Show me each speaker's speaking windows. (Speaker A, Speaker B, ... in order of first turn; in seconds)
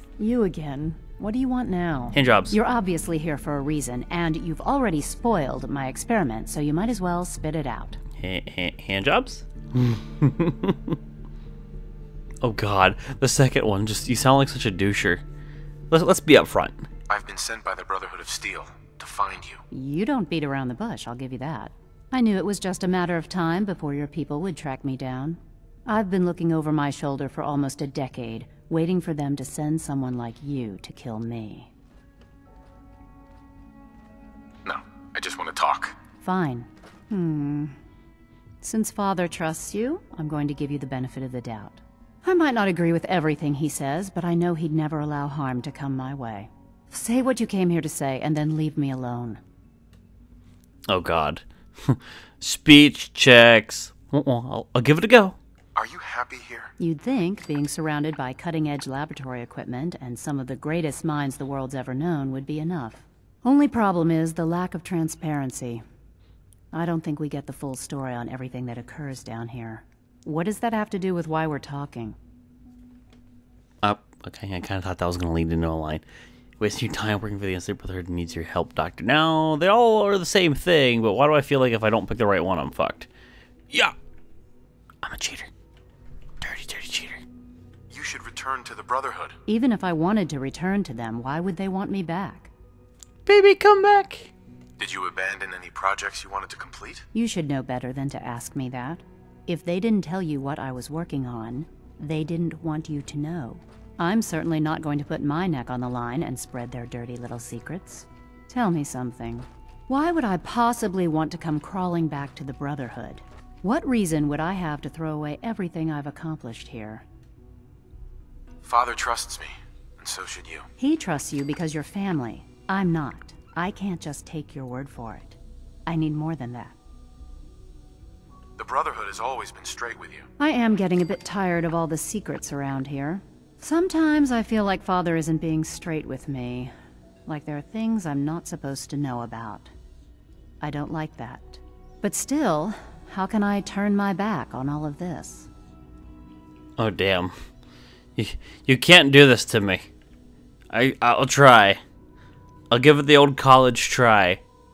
Speaker A: 0.2-8.0, 19.7-31.7, 36.2-37.8, 38.6-49.4, 56.8-65.8, 66.7-72.2, 89.5-92.5, 97.1-117.0, 120.8-126.8, 130.4-136.7, 137.3-139.7, 140.6-145.5
Speaker B: 2.1-2.5, 8.2-11.0, 12.4-15.2, 15.9-16.9, 50.9-55.4, 73.8-76.0, 76.6-83.1, 85.0-85.5, 86.4-87.2, 93.3-94.3, 146.8-147.3, 148.2-149.9, 150.7-151.8, 152.7-154.4
Speaker C: 17.1-19.6, 34.6-36.0, 55.8-56.7, 87.9-89.4, 94.8-97.1, 118.6-120.7, 128.6-130.3